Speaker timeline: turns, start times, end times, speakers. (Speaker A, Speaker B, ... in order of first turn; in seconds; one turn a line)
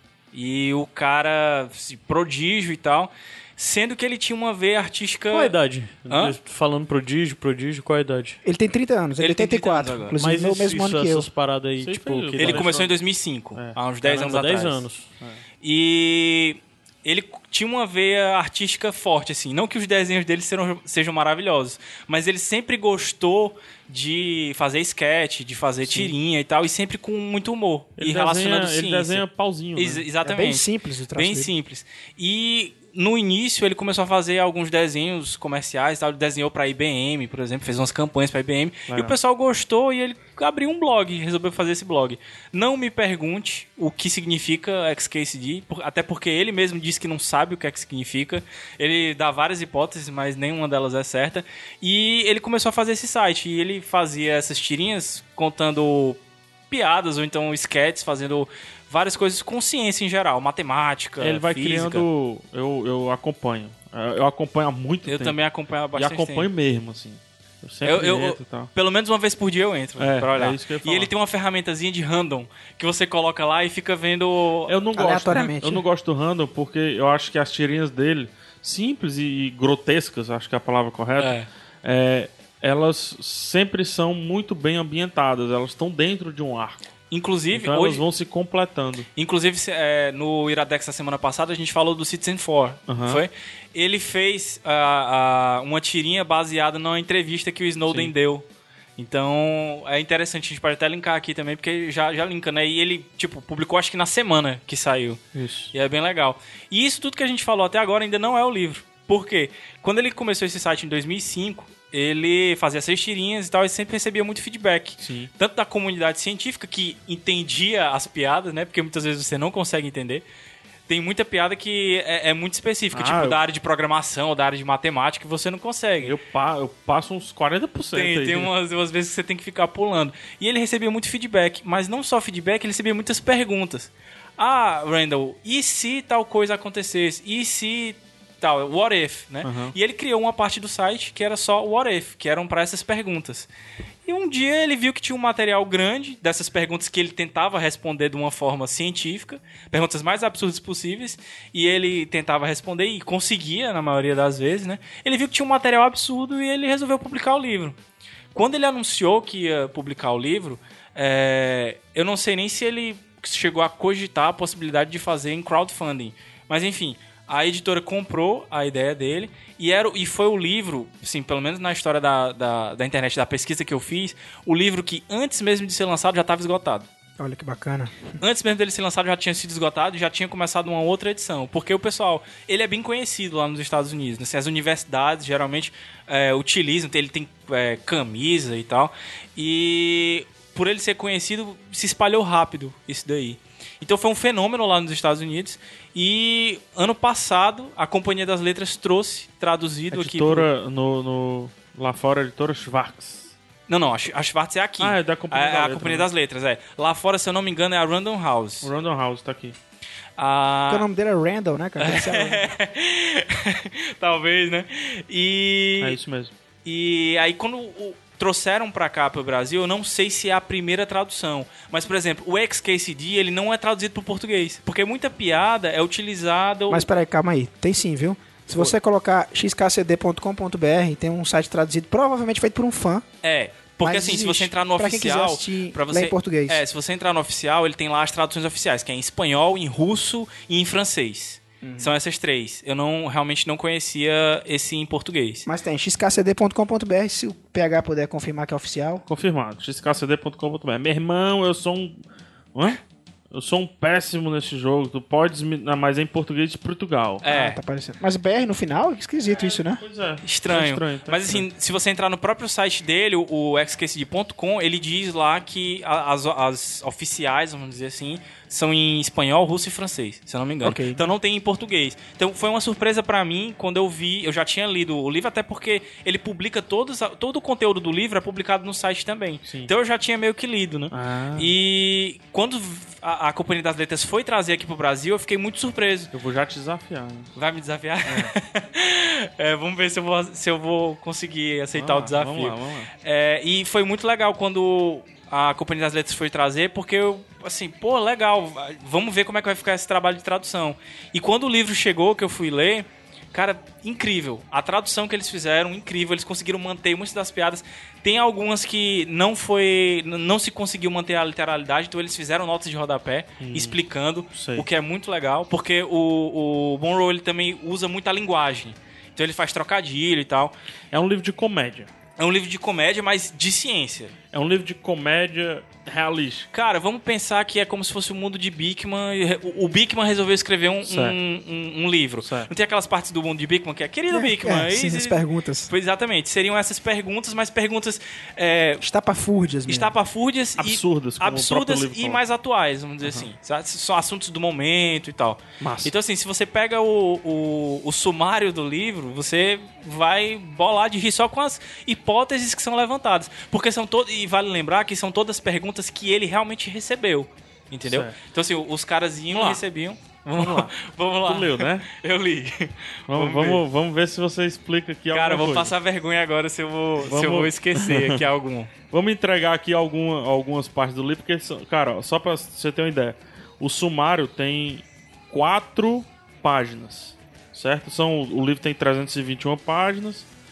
Speaker A: 0.3-5.5
Speaker B: 5.3-8.4
Speaker A: 6.1-6.3
Speaker C: 8.4-11.3
Speaker A: 9.2-10.2
Speaker B: 10.2-12.7
Speaker D: 11.8-12.9
Speaker A: 12.4-14.8
Speaker B: 14.0-15.1
Speaker A: 15.6-29.2
Speaker D: 25.8-26.1
Speaker D: 28.0-30.0
Speaker A: 29.7-56.2
Speaker C: 30.2-31.5
Speaker D: 38.9-39.1
Speaker A: 56.7-62.0
Speaker D: 61.2-65.4
Speaker A: 65.0-66.5
Speaker D: 66.0-68.7
Speaker A: 67.8-74.7
Speaker D: 70.0-71.1
Speaker D: 74.7-86.8
Speaker C: 74.9-75.8
Speaker A: 81.2-81.5
Speaker A: 87.1-88.0
Speaker D: 87.5-89.1
Speaker A: 89.2-98.4
Speaker D: 92.9-93.2
Speaker D: 97.9-98.1
Speaker A: 99.0-120.2
Speaker D: 105.3-105.7
Speaker D: 115.0-115.3
Speaker A: 120.9-126.1
Speaker D: 122.9-123.4
Speaker D: 126.0-128.5
Speaker A: 127.9-143.5
Speaker D: 139.4-139.7
Speaker A: 144.1-157.8
Speaker A: 158.3-176.9
Speaker C: 177.2-178.1
Speaker A: 178.2-200.5
Speaker D: 199.9-203.3
Speaker A: 203.7-208.7
Speaker D: 204.8-206.1
Speaker D: 208.6-209.6
Speaker A: 210.2-210.9
Speaker C: 210.7-212.5
Speaker A: 211.8-216.0
Speaker D: 215.8-216.3
Speaker A: 216.6-226.9
Speaker C: 226.7-233.1
Speaker A: 233.2-245.5
Speaker C: 233.8-236.6
Speaker C: 241.6-241.9
Speaker C: 245.4-249.0
Speaker D: 249.1-252.0
Speaker D: 252.5-252.8
Speaker D: 253.3-257.2
Speaker A: 257.2-257.6
Speaker C: 257.2-259.8
Speaker D: 259.4-261.4
Speaker A: 260.2-286.1
Speaker C: 270.6-271.1
Speaker D: 279.4-279.7
Speaker D: 280.9-281.5
Speaker D: 286.1-287.3
Speaker A: 287.4-320.5
Speaker D: 288.1-288.3
Speaker D: 291.7-292.9
Speaker D: 313.4-313.8
Speaker D: 314.3-314.6
Speaker D: 320.9-321.9
Speaker A: 322.2-324.1
Speaker D: 324.3-326.5
Speaker A: 326.5-338.8
Speaker D: 330.8-331.2
Speaker D: 332.2-332.5
Speaker C: 334.1-335.7
Speaker C: 338.8-339.9
Speaker A: 339.7-363.6
Speaker D: 340.6-342.2
Speaker D: 343.0-343.3
Speaker D: 345.6-345.9
Speaker D: 357.8-358.2
Speaker D: 359.3-359.6
Speaker D: 360.4-360.7
Speaker D: 361.2-361.9
Speaker D: 363.1-365.7
Speaker A: 365.1-368.7
Speaker D: 367.0-368.2
Speaker D: 368.9-380.3